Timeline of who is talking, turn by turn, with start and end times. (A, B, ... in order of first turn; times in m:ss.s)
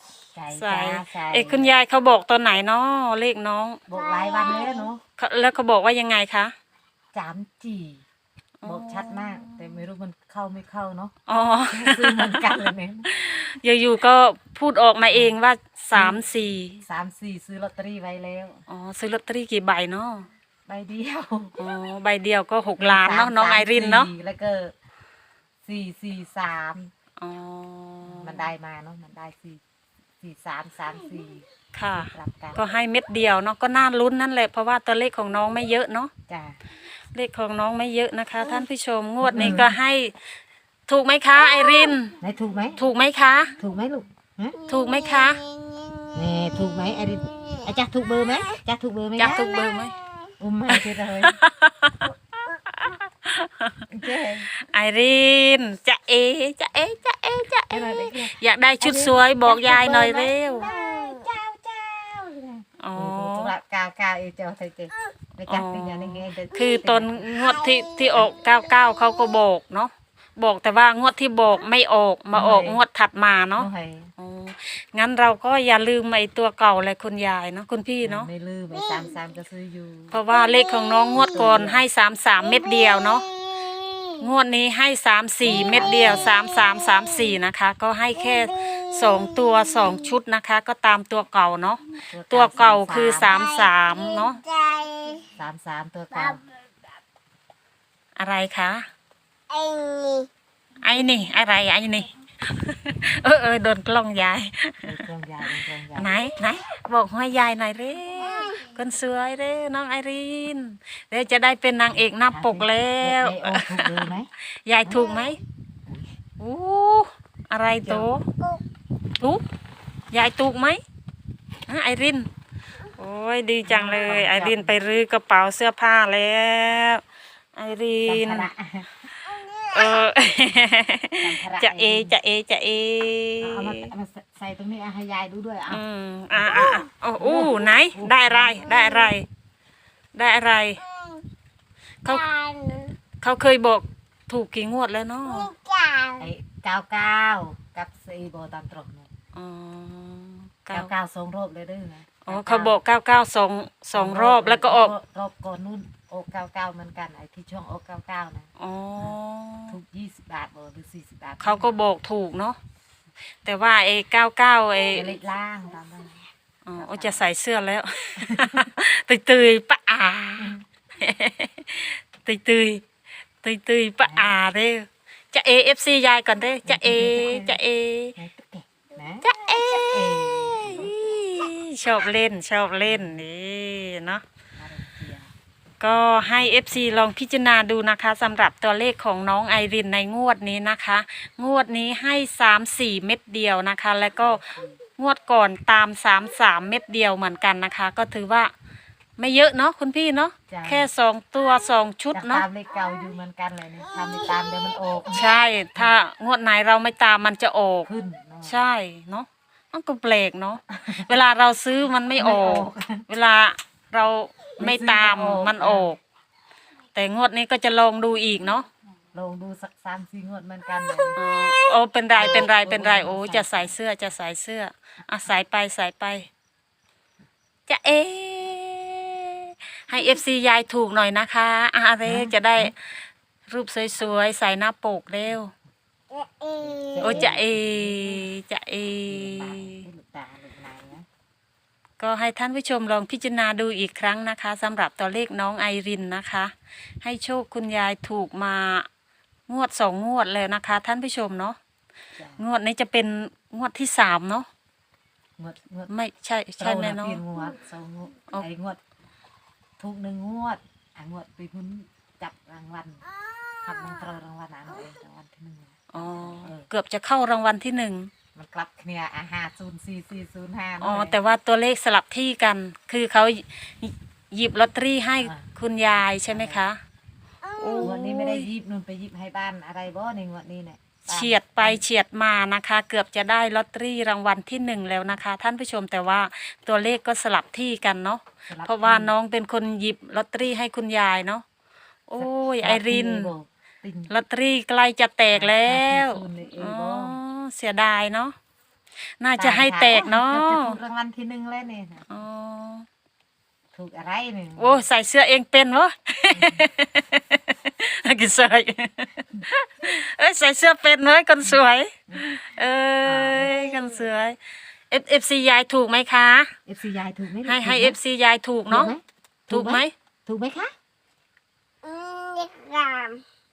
0:00.4-0:01.7 A
0:00.5-0:03.8 B
0:03.9-0:05.0 A
0:05.2-0:06.6 B
0:07.1-0:08.0 A
0:08.6-0:09.7 B
0:08.6-0:13.1 A
0:11.3-0:12.5 B
0:13.0-0:16.8 B
0:15.1-0:15.4 A
0:15.9-0:16.2 A
0:16.8-0:18.6 A
0:18.7-0:20.3 B
0:20.7-0:21.6 A
0:21.6-0:24.1 B
0:22.8-0:24.7 A
0:25.6-0:26.9 A
0:27.2-0:28.5 B
0:28.1-0:29.6 A
0:30.2-0:32.6 A
0:31.7-0:36.1 B
0:36.3-0:36.6 A
0:37.1-0:40.2 B
0:39.2-0:39.7 A
0:40.9-0:42.2 B
0:42.2-0:42.8 A
0:42.8-0:43.6 B
0:43.6-0:44.6 A
0:44.7-0:45.4 B
0:45.5-0:46.1 C
0:46.2-0:49.5 A
0:49.2-0:50.0 B
0:50.4-0:51.4 A
0:50.7-0:52.1 B
0:52.7-0:53.9 B
0:53.9-0:54.5 A
0:54.6-1:00.7 B
0:57.7-1:07.4 A
1:02.8-1:03.5 B
1:05.5-1:18.3 B
1:12.3-1:12.8 A
1:13.6-1:14.1 A
1:18.0-1:20.2 A
1:20.1-1:23.3 B
1:21.1-1:21.8 A
1:23.7-1:24.1 C
1:24.2-1:34.4 B
1:25.4-1:26.3 A
1:32.1-1:33.4 A
1:34.4-1:35.3 C
1:35.4-1:36.4 A
1:38.2-1:38.9 B
1:39.5-1:40.3 C
1:40.8-1:54.1 B
1:44.8-1:46.1 A
1:52.3-1:54.3 A
1:54.6-1:55.4 B
1:56.4-1:58.3 B
1:59.2-1:59.4 B
2:00.1-2:00.8 B
2:01.7-2:02.3 B
2:03.0-2:07.0 B
2:03.6-2:04.8 A
2:07.6-2:08.5 B
2:08.0-2:09.0 A
2:09.6-2:13.9 B
2:11.2-2:12.2 A
2:13.4-2:18.8 A
2:15.7-2:19.3 B
2:20.2-2:20.9 B
2:22.0-2:22.4 B
2:22.3-2:22.9 C
2:23.2-2:25.6 B
2:25.5-2:26.2 C
2:26.2-2:29.1 A
2:29.3-2:30.9 B
2:30.7-2:32.8 A
2:32.2-2:34.9 B
2:33.9-2:39.1 A
2:38.6-2:39.8 B
2:39.7-2:41.8 A
2:41.4-2:42.6 B
2:43.4-2:45.2 B
2:44.9-2:47.2 A
2:46.7-2:52.8 B
2:48.3-2:48.7 A
2:53.4-2:58.2 B
2:54.0-2:54.3 A
2:56.6-2:57.6 A
2:58.2-3:01.0 A
2:59.2-3:04.2 B
3:02.9-3:03.2 A
3:04.6-3:05.3 A
3:05.8-3:14.4 B
3:14.2-3:14.8 A
3:15.0-3:18.5 B
3:19.2-3:22.5 B
3:20.5-3:20.9 A
3:22.1-3:25.9 A
3:25.1-3:27.9 B
3:27.9-3:28.7 A
3:28.4-3:36.0 B
3:30.7-3:31.1 A
3:32.2-3:33.0 A
3:34.6-3:35.9 A
3:37.0-3:38.7 B
3:39.1-3:41.2 A
3:41.2-3:46.3 B
3:42.2-3:43.8 A
3:47.7-3:55.5 B
3:52.0-3:52.7 A
3:56.1-3:56.7 C
3:56.6-3:58.3 A
3:57.0-3:59.8 B
3:59.1-4:01.1 A
4:02.0-4:08.9 B
4:09.5-4:11.6 B
4:12.2-4:12.4 A
4:12.4-4:14.5 B
4:15.4-4:15.9 A
4:15.9-4:17.2 B
4:16.6-4:18.8 A
4:19.8-4:23.1 A
4:23.6-4:26.7 A
4:25.9-4:28.1 B
4:28.4-4:31.2 A
4:30.8-4:36.8 B
4:35.2-4:35.5 A
4:36.1-4:36.6 A
4:37.6-4:38.5 B
4:37.8-4:41.8 A
4:41.1-4:51.4 B
4:48.5-4:49.1 A
4:52.1-4:53.3 B
4:52.2-4:54.1 A
4:54.1-4:58.4 B
4:55.3-4:57.2 A
4:59.2-5:00.8 B
4:59.4-5:02.1 A
5:02.1-5:02.9 B
5:03.7-5:04.8 A
5:04.6-5:14.4 B
5:06.4-5:06.6 A
5:13.0-5:13.7 A
5:14.9-5:16.5 B
5:16.7-5:18.0 A
5:17.4-5:18.9 B
5:18.7-5:20.7 A
5:19.5-5:19.9 B
5:21.8-5:23.2 C